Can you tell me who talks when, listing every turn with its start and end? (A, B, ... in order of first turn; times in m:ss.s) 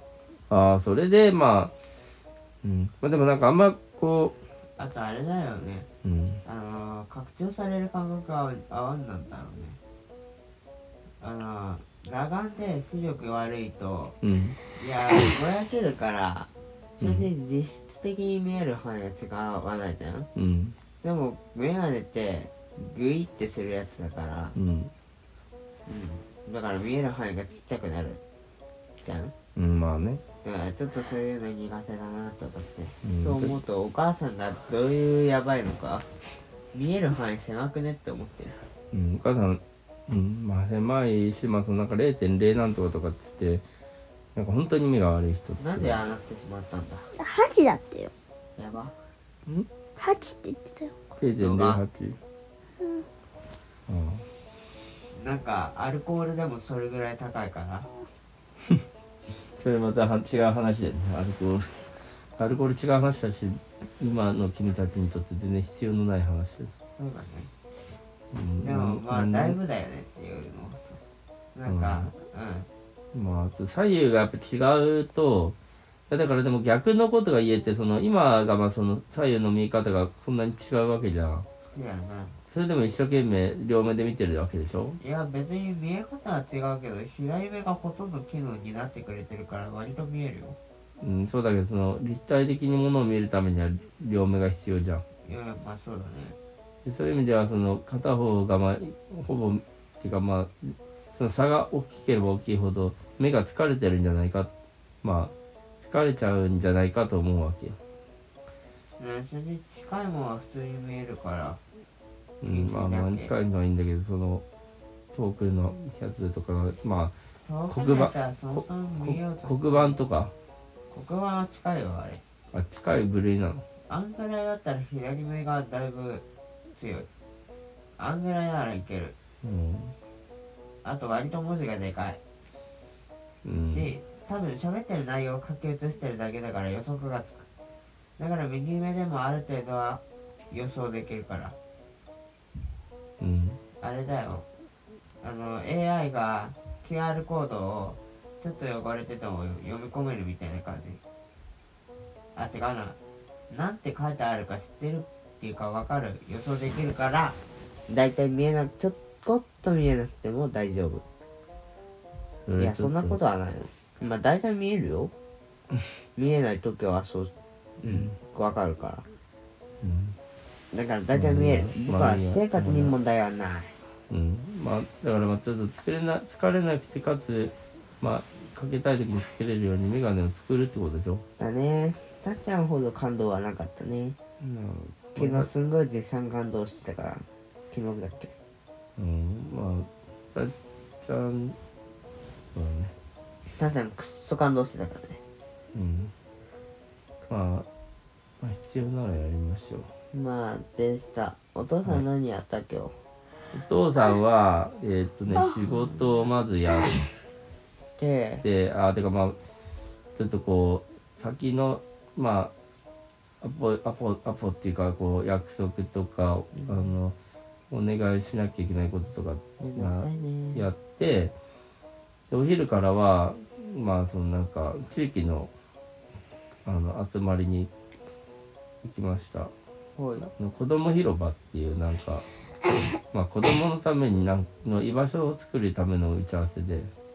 0:00.5-0:01.7 A
0:02.6-0:04.4 A
0:04.8-0:05.9 B
0:06.0-0:06.4 A
0:06.4-0:09.8 B
0:11.2-0:14.2 B
0:14.2-0:14.6 A
0:14.8-0:20.3 B
0:17.0-0:17.3 A
0:20.4-0:20.8 A
0:21.0-0:24.6 B
0:24.6-0:24.9 A
0:25.9-0:28.2 B
0:29.0-0:29.3 B
0:29.6-0:30.2 A
0:30.4-0:36.1 B
0:33.0-0:33.6 A
0:36.7-0:38.6 B
0:38.9-0:43.6 A
0:44.4-0:46.0 A
0:45.6-0:47.1 B
0:47.2-0:48.1 C
0:48.6-0:49.0 B
0:50.0-0:51.0 C
0:51.2-0:52.2 A
0:51.4-0:51.8 B
0:53.9-0:54.3 A
0:55.1-0:57.9 B
0:59.5-1:06.8 A
1:07.0-1:07.5 B
1:08.3-1:09.6 A
1:08.6-1:11.0 B
1:11.6-1:12.7 B
1:11.7-1:12.1 A
1:13.1-1:15.6 A
1:16.1-1:21.5 A
1:21.7-1:22.4 B
1:22.5-1:25.0 A
1:25.0-1:30.6 B
1:31.0-1:35.0 A
1:35.2-1:36.4 B
1:36.8-1:44.5 A
1:45.0-1:47.8 A
1:49.0-1:51.6 B
1:52.4-1:54.4 A
1:52.5-1:53.3 B
1:55.1-1:57.1 A
1:57.4-2:00.0 B
1:57.7-2:00.3 A
2:00.9-2:02.2 B
2:02.5-2:03.6 A
2:03.9-2:07.1 B
2:08.0-2:09.2 B
2:09.4-2:10.0 A
2:10.8-2:12.2 B
2:13.4-2:13.9 A
2:13.6-2:17.5 B
2:18.2-2:21.6 B
2:23.2-2:23.6 A
2:23.8-2:24.4 B
2:25.2-2:31.0 B
2:32.4-2:33.0 B
2:33.5-2:41.0 B
2:42.5-2:43.2 A
2:42.6-2:45.1 B
2:46.2-2:49.0 B
2:47.8-2:48.1 A
2:49.8-2:50.2 A
2:50.7-2:53.7 B
2:51.1-2:53.0 A
2:54.1-3:01.2 A
3:01.4-3:04.2 B
3:04.4-3:05.5 A
3:05.2-3:08.3 B
3:09.0-3:11.6 A
3:12.5-3:12.9 A
3:13.6-3:15.2 B
3:15.7-3:16.1 A
3:17.3-3:17.7 A
3:18.4-3:19.9 A
3:20.1-3:23.0 B
3:23.5-3:27.0 A
3:28.0-3:28.4 B
3:28.4-3:29.4 A
3:30.2-3:32.5 A
3:33.4-3:37.2 A
3:36.6-3:36.8 B
3:37.7-3:41.3 A
3:39.6-3:40.7 B
3:42.3-3:45.5 A
3:46.6-3:47.7 A
3:48.8-3:49.5 A
3:50.0-3:50.3 B
3:50.4-3:52.3 A
3:53.1-3:56.9 A